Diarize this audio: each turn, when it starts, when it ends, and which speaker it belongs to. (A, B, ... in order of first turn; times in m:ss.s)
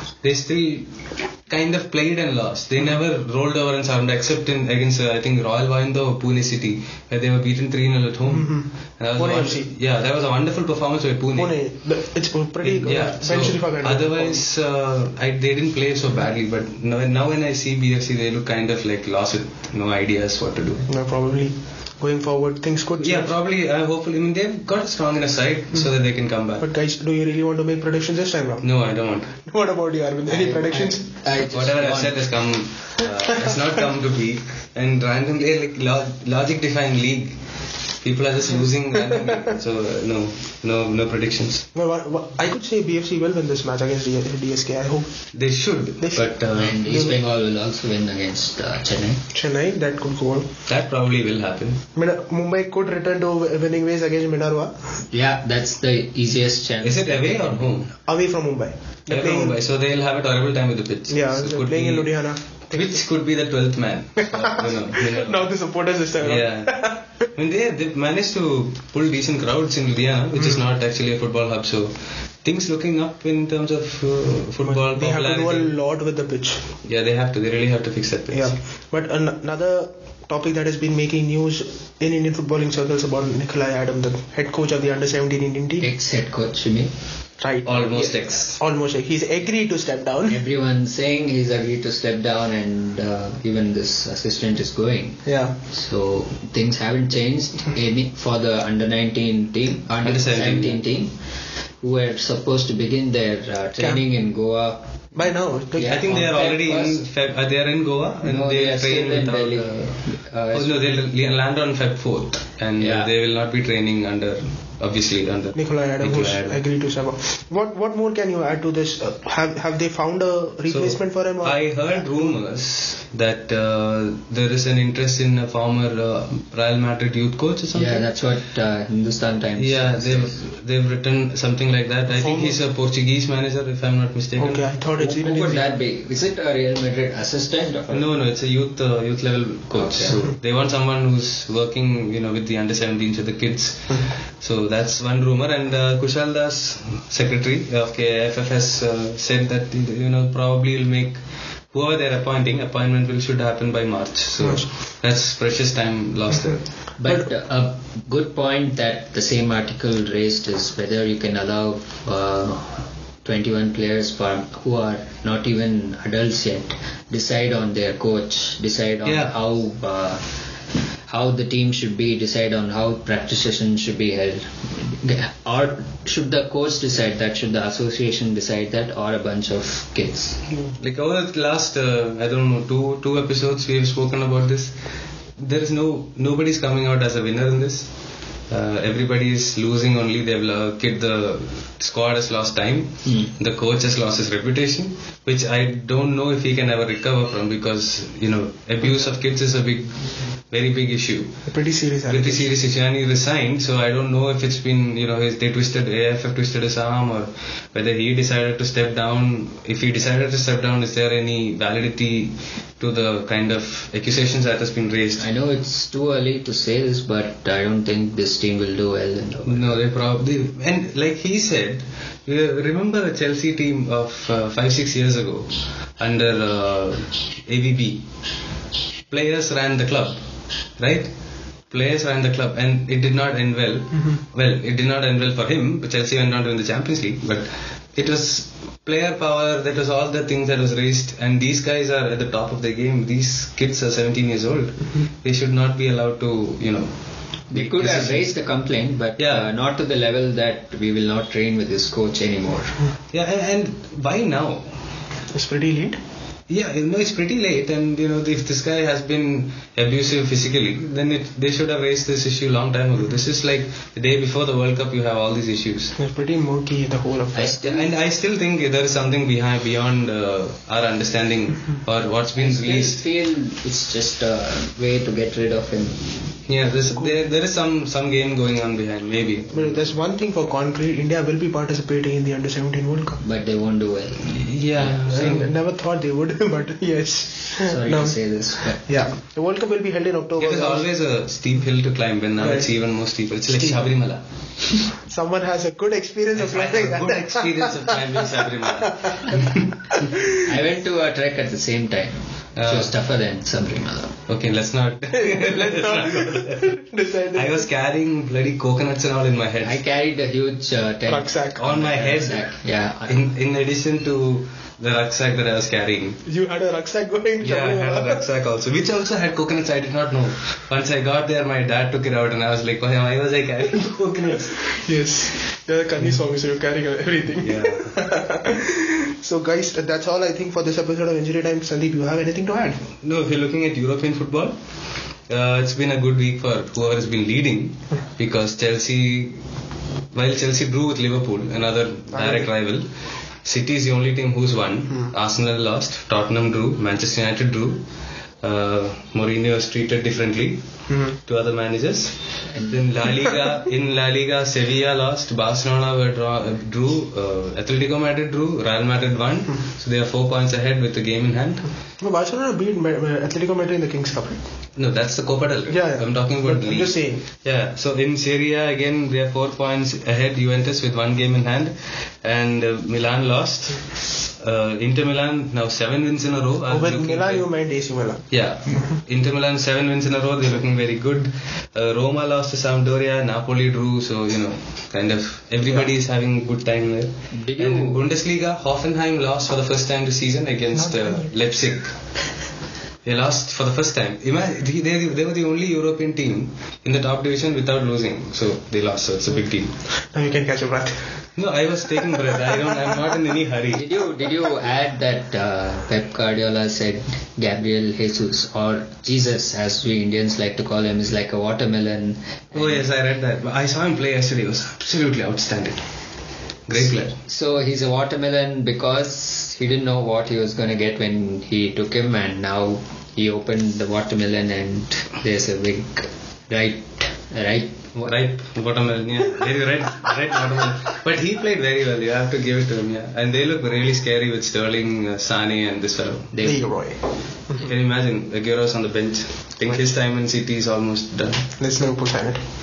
0:00.2-0:11.6 A
0:08.2-0:09.7 B
0:11.3-0:14.4 B
0:12.6-0:20.8 A
0:20.9-0:23.3 B
0:23.0-0:26.6 A
0:26.6-0:28.7 B
0:28.6-0:29.4 A
0:29.4-0:31.0 B
0:30.3-0:32.2 C
0:31.5-0:37.4 A
0:38.0-0:41.6 A
0:41.7-0:45.1 B
0:45.3-0:46.8 A
0:46.0-0:47.1 B
0:46.5-0:49.2 C
0:49.3-0:50.5 B
0:50.7-0:51.8 A
0:52.0-0:54.7 B
0:55.1-0:57.7 C
0:56.8-0:57.9 A
0:58.0-0:59.6 B
0:59.1-1:02.1 A
1:01.1-1:02.9 B
1:02.7-1:05.5 A
1:04.5-1:07.0 B
1:06.2-1:15.7 A
1:10.4-1:10.6 B
1:14.6-1:16.6 B
1:16.8-1:18.5 A
1:18.3-1:25.8 B
1:25.8-1:26.9 C
1:27.4-1:28.0 B
1:27.6-1:28.6 A
1:28.5-1:30.4 B
1:30.3-1:41.1 C
1:35.2-1:35.5 B
1:40.0-1:40.8 A
1:41.8-1:44.8 C
1:45.2-1:46.0 B
1:45.8-1:47.1 C
1:45.8-1:49.9 A
1:48.2-1:50.7 C
1:50.5-1:56.6 A
1:52.8-1:53.1 C
1:55.5-2:02.2 B
2:00.7-2:08.0 A
2:07.7-2:10.4 C
2:09.6-2:14.6 A
2:12.1-2:12.6 B
2:14.4-2:15.6 B
2:15.0-2:18.1 C
2:17.9-2:36.6 A
2:19.7-2:20.2 C
2:34.4-2:34.7 B
2:37.0-2:50.4 C
2:49.0-2:49.3 A
2:51.1-3:00.4 C
3:00.8-3:04.7 A
3:05.4-3:07.9 A
3:08.5-3:21.5 A
3:21.5-3:22.5 B
3:22.1-3:35.2 A
3:35.2-3:39.8 C
3:39.4-3:48.0 A
3:49.1-3:50.2 A
3:50.8-3:51.1 A
3:51.7-4:06.9 A
4:07.5-4:12.8 C
4:07.5-4:08.3 A
4:09.2-4:09.4 A
4:13.1-4:14.7 A
4:15.3-4:16.0 B
4:16.5-4:25.9 A
4:26.0-4:27.6 B
4:27.3-4:27.9 C
4:27.6-4:33.0 A
4:32.3-4:36.0 C
4:36.5-4:39.9 A
4:39.5-4:43.2 B
4:43.2-4:44.8 C
4:44.3-4:45.5 A
4:44.9-4:48.2 B
4:47.6-4:48.8 C
4:48.7-4:50.9 B
4:50.4-4:54.8 A
4:52.4-4:52.7 B
4:53.5-4:53.8 B
4:55.0-4:59.3 B
4:56.4-5:00.0 A
5:00.3-5:04.2 C
5:02.6-5:02.9 A
5:04.3-5:06.7 A
5:05.1-5:07.6 B
5:07.3-5:09.8 A
5:09.6-5:13.2 C
5:11.1-5:11.7 B
5:11.6-5:12.5 A
5:13.1-5:16.2 A
5:16.2-5:18.2 B
5:17.4-5:24.8 A
5:24.7-5:32.8 B
5:27.4-5:27.9 A
5:33.0-5:34.6 A
5:35.2-5:39.4 A
5:40.1-5:42.9 A
5:42.1-5:42.5 B
5:43.4-5:47.8 A
5:48.4-6:01.7 A
5:50.9-5:51.2 B
6:02.0-6:04.4 B
6:04.8-6:17.4 A
6:05.7-6:07.2 B
6:16.7-6:18.3 B
6:18.3-6:31.9 A
6:27.3-6:28.0 C
6:30.8-6:31.3 B
6:33.0-6:39.7 A
6:39.9-6:41.1 B
6:41.4-6:43.9 A
6:43.7-6:52.8 C
6:52.5-6:55.8 A
6:56.7-6:57.1 A
6:57.2-7:08.1 C
7:08.0-7:16.3 A
7:16.3-7:16.6 C
7:16.4-7:17.6 B
7:17.6-7:21.4 A
7:21.6-7:22.4 B